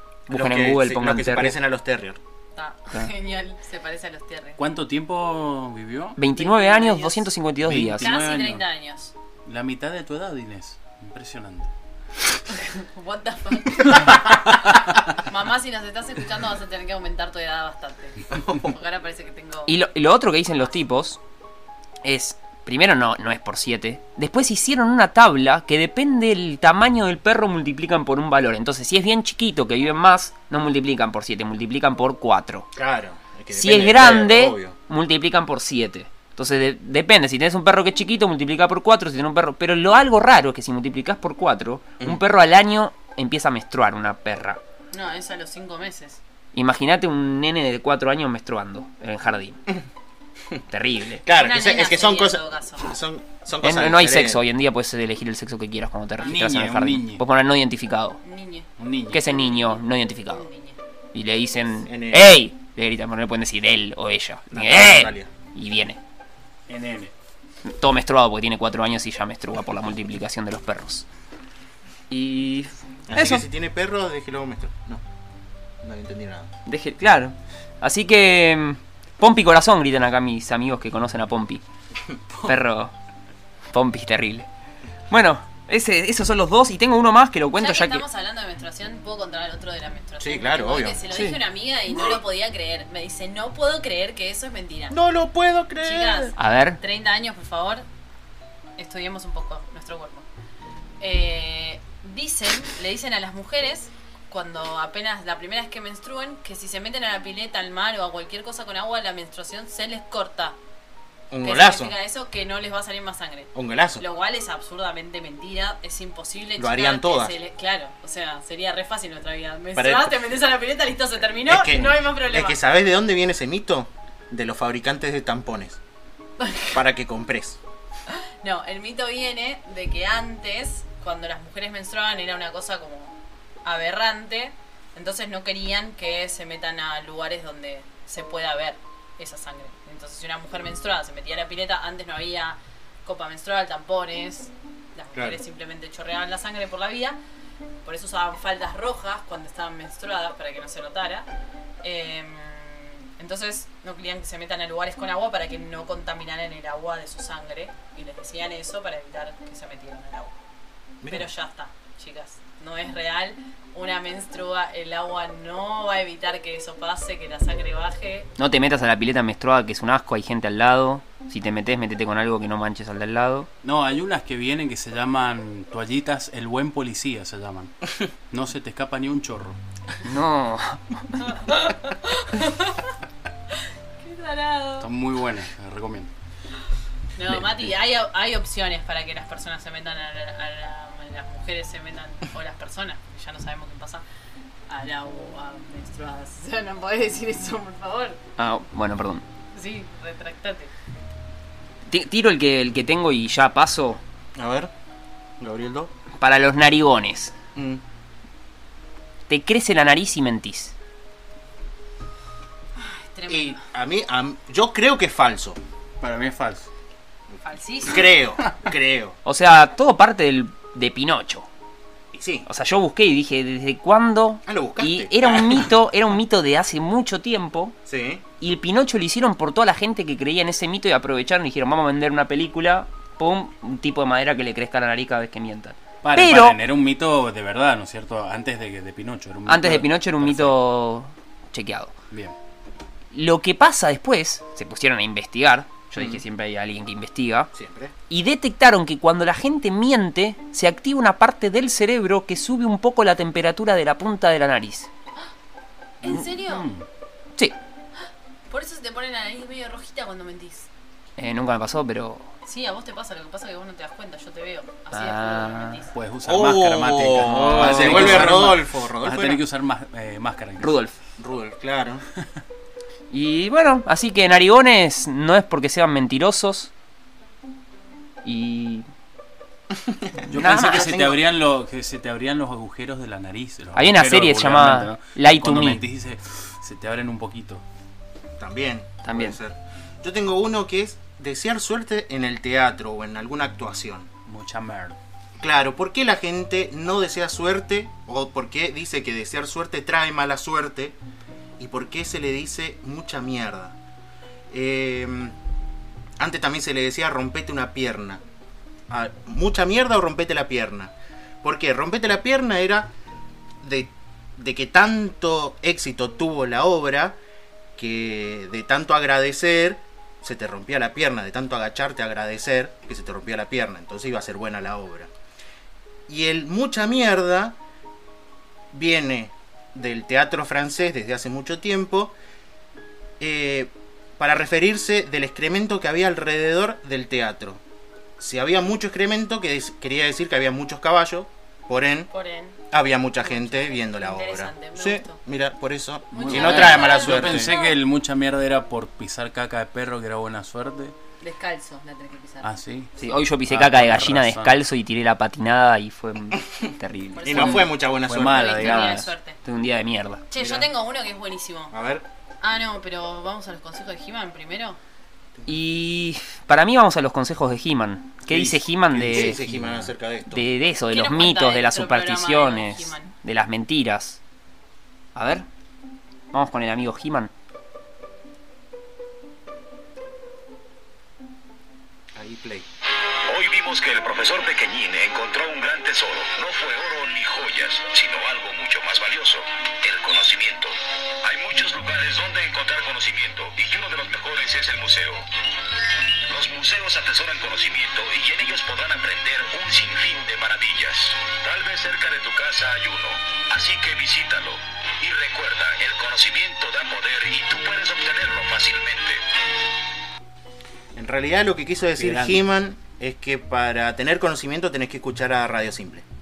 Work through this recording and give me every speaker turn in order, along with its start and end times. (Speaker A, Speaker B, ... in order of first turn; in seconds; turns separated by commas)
Speaker A: 0.3-1.6, Speaker B: 0.3-2.2, Speaker C: 2.5-4.6, Speaker D: 4.6-6.2, Speaker A: 6.2-8.1, Speaker C: 6.3-7.2, Speaker D: 7.6-8.6, Speaker C: 8.0-9.1, Speaker D: 9.4-11.7, Speaker C: 12.5-19.8, Speaker B: 18.4-18.6, Speaker A: 19.7-21.2, Speaker A: 22.0-32.7, Speaker B: 32.8-34.8, Speaker A: 33.5-44.6, Speaker C: 44.9-46.2, Speaker A: 46.5-49.6, Speaker A: 50.7-51.2, Speaker B: 51.2-54.4, Speaker C: 51.3-52.9, Speaker A: 53.6-58.2, Speaker D: 56.2-57.2, Speaker C: 58.2-60.8, Speaker D: 58.8-59.2, Speaker A: 59.1-60.5, Speaker A: 61.1-66.0, Speaker B: 61.9-62.4, Speaker B: 64.5-65.3, Speaker D: 66.7-67.1, Speaker A: 67.7-71.0, Speaker A: 72.1-73.5, Speaker B: 73.1-75.0, Speaker B: 75.8-76.5, Speaker A: 76.7-81.6, Speaker A: 82.5-82.9, Speaker A: 83.7-84.5, Speaker A: 85.1-88.0, Speaker C: 87.6-95.0, Speaker B: 90.2-91.0, Speaker A: 91.1-91.4, Speaker B: 94.9-96.3, Speaker C: 95.8-97.8, Speaker A: 96.4-96.8, Speaker C: 98.8-100.3, Speaker C: 101.0-110.6, Speaker B: 111.3-111.9, Speaker C: 111.4-122.6, Speaker B: 113.5-114.0, Speaker B: 116.6-117.4, Speaker B: 119.8-120.2, Speaker B: 121.5-125.8, Speaker C: 126.4-126.8, Speaker B: 126.7-127.6, Speaker C: 128.1-147.2, Speaker B: 145.1-145.4, Speaker C: 147.8-151.3, Speaker C: 151.8-160.4, Speaker B: 161.0-161.3, Speaker C: 161.1-168.3, Speaker A: 168.4-173.5, Speaker D: 173.6-179.6, Speaker A: 180.0-181.3, Speaker C: 181.2-182.9, Speaker C: 183.5-184.9, Speaker D: 184.8-186.1, Speaker C: 187.2-194.0, Speaker C: 194.7-198.2, Speaker A: 198.4-199.2, Speaker C: 199.5-200.7, Speaker A: 201.9-204.0, Speaker B: 204.4-204.7, Speaker B: 205.4-205.9, Speaker A: 206.2-207.3, Speaker B: 207.6-207.8, Speaker A: 209.3-210.7, Speaker C: 212.8-213.7, Speaker B: 213.3-215.6, Speaker D: 216.0-216.7, Speaker B: 217.3-219.2, Speaker C: 217.4-218.1, Speaker A: 219.2-221.5, Speaker B: 222.1-222.5, Speaker A: 222.5-227.8, Speaker B: 224.5-225.7, Speaker B: 227.9-228.2, Speaker A: 228.4-236.6, Speaker D: 236.0-240.6, Speaker A: 239.5-241.9, Speaker A: 243.1-247.5, Speaker B: 246.0-246.2, Speaker B: 247.5-247.9, Speaker A: 248.1-254.9, Speaker C: 256.0-256.7, Speaker D: 256.5-256.9, Speaker C: 258.5-260.7, Speaker A: 261.2-262.3, Speaker C: 262.4-265.9, Speaker A: 264.9-265.8, Speaker D: 265.9-270.8, Speaker B: 266.2-269.4, Speaker A: 267.2-268.5, Speaker A: 270.6-270.9, Speaker B: 271.2-272.1, Speaker A: 273.1-276.7, Speaker A: 278.2-278.9, Speaker B: 279.8-281.2, Speaker D: 280.2-287.6, Speaker A: 280.3-281.1, Speaker A: 283.8-285.8, Speaker B: 288.4-294.1, Speaker A: 289.0-289.4, Speaker D: 294.3-295.0, Speaker B: 295.4-301.0, Speaker B: 301.6-303.8, Speaker B: 304.5-305.4, Speaker B: 306.2-308.2, Speaker B: 308.9-312.9, Speaker B: 313.6-317.2, Speaker B: 317.8-325.1, Speaker B: 326.1-327.6, Speaker B: 328.7-332.1, Speaker B: 333.2-337.6, Speaker B: 338.2-342.1, Speaker C: 342.1-342.6, Speaker B: 342.7-347.5, Speaker C: 343.2-345.2, Speaker C: 346.1-347.8, Speaker D: 346.1-350.9, Speaker A: 346.4-346.9, Speaker C: 351.2-352.5, Speaker D: 352.4-354.6, Speaker A: 353.0-357.7, Speaker C: 357.1-359.4, Speaker B: 357.2-358.7, Speaker D: 358.1-359.1, Speaker A: 358.5-360.2, Speaker C: 360.3-361.8, Speaker B: 360.4-360.7, Speaker B: 361.7-362.1, Speaker C: 362.4-364.8, Speaker A: 365.5-369.4, Speaker D: 368.3-369.9, Speaker B: 368.3-370.5, Speaker A: 370.3-374.2, Speaker C: 370.9-373.1, Speaker A: 375.1-375.4, Speaker A: 376.3-377.3, Speaker B: 382.1-382.7, Speaker E: 383.3-395.3, Speaker E: 396.3-409.2, Speaker B: 410.9-416.1, Speaker D: 412.0-412.4